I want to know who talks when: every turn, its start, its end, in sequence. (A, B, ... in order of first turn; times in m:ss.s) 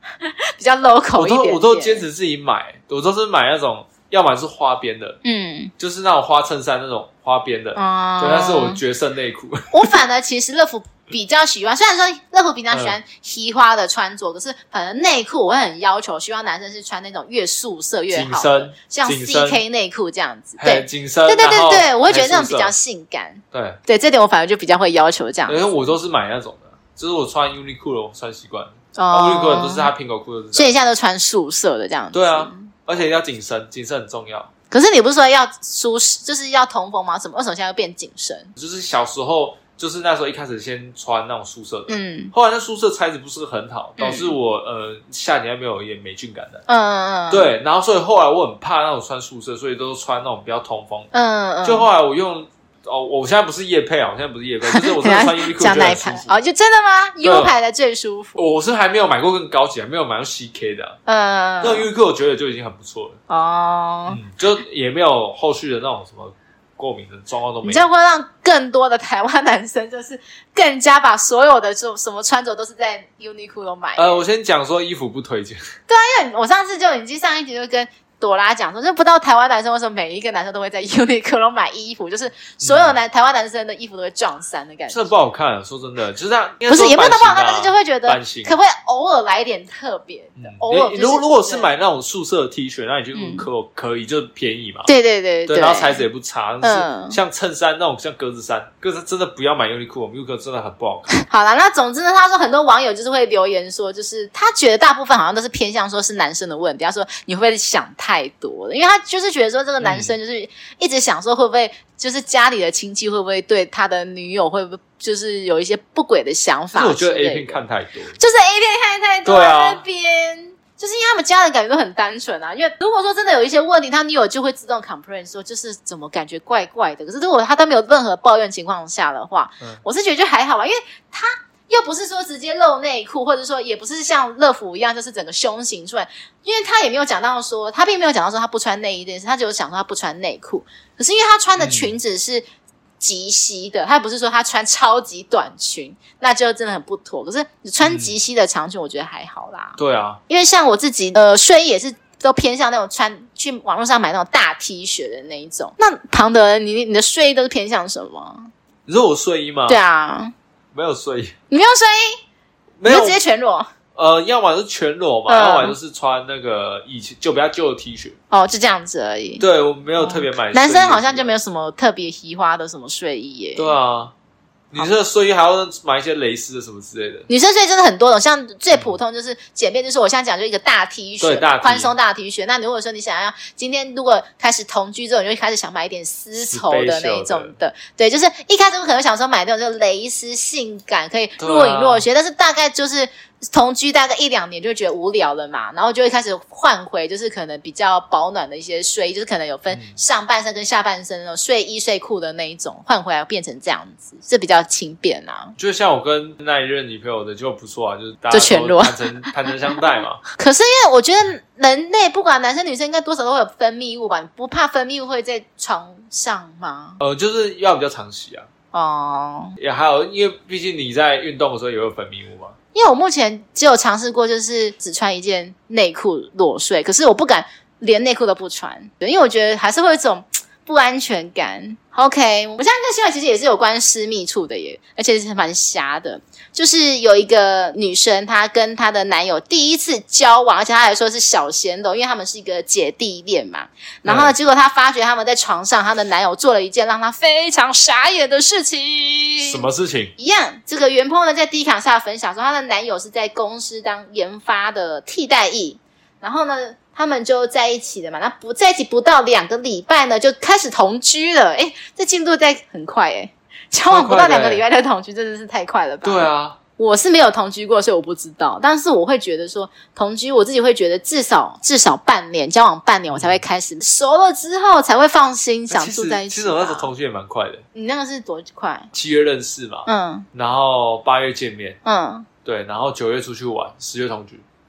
0:00.2-0:02.0 A
0:01.2-0:05.2 B
0:05.2-0:05.7 A
0:05.8-0:09.9 B
0:07.8-0:08.8 A
0:09.7-0:25.9 A
0:12.7-0:13.0 B
0:18.1-0:19.6 B
0:20.6-0:22.8 B
0:23.5-0:23.8 B
0:25.5-0:30.8 B
0:29.0-0:29.9 A
0:30.5-0:32.7 A
0:32.1-0:34.5 B
0:34.7-0:38.5 A
0:38.6-0:46.6 B
0:41.9-0:42.3 A
0:44.0-0:44.3 A
0:46.7-0:47.5 A
0:47.3-0:51.1 B
0:51.1-0:51.9 A
0:51.6-0:56.3 B
0:54.7-0:58.4 A
0:57.2-0:57.5 B
0:58.4-1:01.0 B
1:01.1-1:01.9 A
1:01.6-1:03.2 B
1:03.3-1:04.2 A
1:04.1-1:07.8 B
1:07.6-1:14.2 A
1:14.0-1:15.6 B
1:15.9-1:25.1 A
1:22.6-1:23.0 B
1:24.9-1:28.6 B
1:26.7-1:31.7 A
1:30.4-1:34.9 B
1:33.2-1:33.4 A
1:34.9-1:36.0 A
1:35.5-1:41.1 B
1:36.6-1:37.2 A
1:41.2-1:57.6 A
1:49.8-1:50.2 B
1:56.7-1:58.2 B
1:58.2-2:22.4 A
1:59.2-1:59.8 B
2:21.6-2:21.9 B
2:23.0-2:38.5 A
2:27.8-2:28.1 B
2:29.8-2:30.2 B
2:38.9-2:39.8 B
2:39.7-2:40.3 A
2:40.7-2:41.3 B
2:41.5-2:42.2 A
2:42.8-2:43.2 B
2:42.8-2:43.7 A
2:44.0-2:48.2 B
2:45.3-2:45.8 A
2:48.3-2:49.4 A
2:49.4-2:51.3 B
2:50.0-2:53.7 A
2:53.6-2:54.1 B
2:54.7-2:57.3 B
2:57.3-3:25.6 A
3:01.2-3:01.9 B
3:06.4-3:07.6 B
3:11.4-3:12.1 B
3:19.7-3:20.0 B
3:25.6-3:30.2 B
3:28.3-3:29.0 A
3:30.4-3:37.0 A
3:37.0-3:38.5 B
3:38.7-3:39.6 A
3:39.6-3:42.6 B
3:42.7-4:09.6 A
4:04.0-4:04.3 B
4:09.4-4:10.1 B
4:10.2-4:36.9 A
4:23.9-4:24.6 B
4:26.0-4:26.6 B
4:33.1-4:33.4 B
4:35.7-4:37.6 B
4:37.7-4:38.9 A
4:38.9-4:41.8 B
4:39.9-4:40.3 A
4:41.8-4:42.3 A
4:42.4-4:44.4 B